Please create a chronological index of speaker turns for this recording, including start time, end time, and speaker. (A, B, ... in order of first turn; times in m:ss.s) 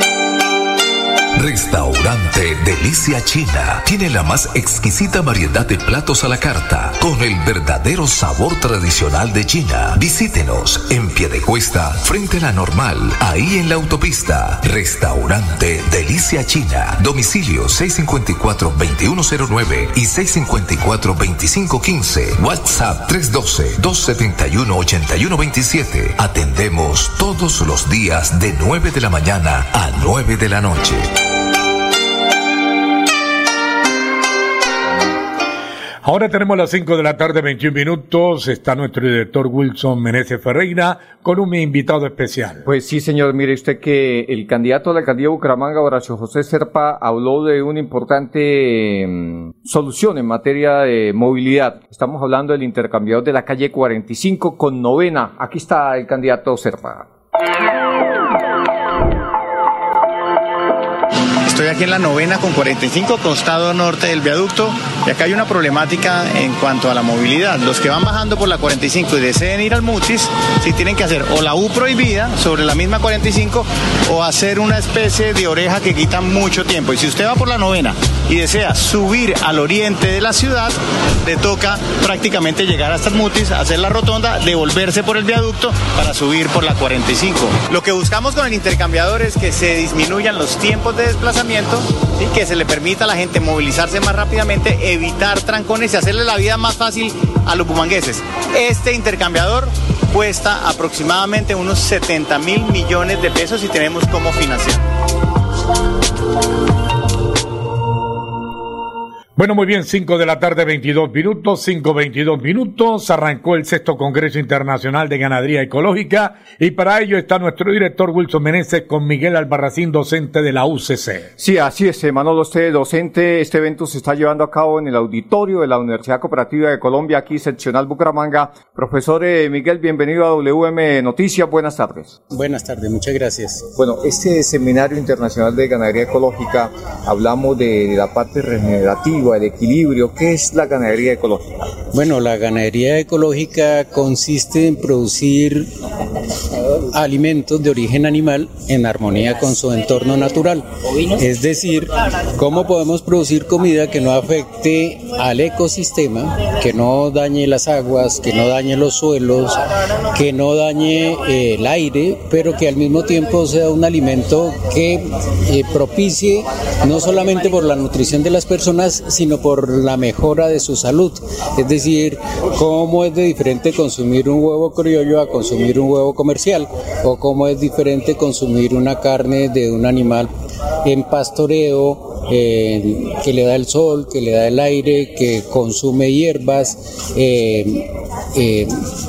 0:01.4-0:31.1 A
0:36.0-0:42.6 B
0:42.6-0:57.1 C
1:01.4-1:44.8 D
1:49.4-2:01.3 B
2:01.4-2:12.2 C
2:12.3-2:13.7 E
2:13.8-2:21.4 C
2:21.9-2:25.7 E
2:26.9-2:39.6 E
2:40.1-3:00.3 E
3:00.8-3:08.7 E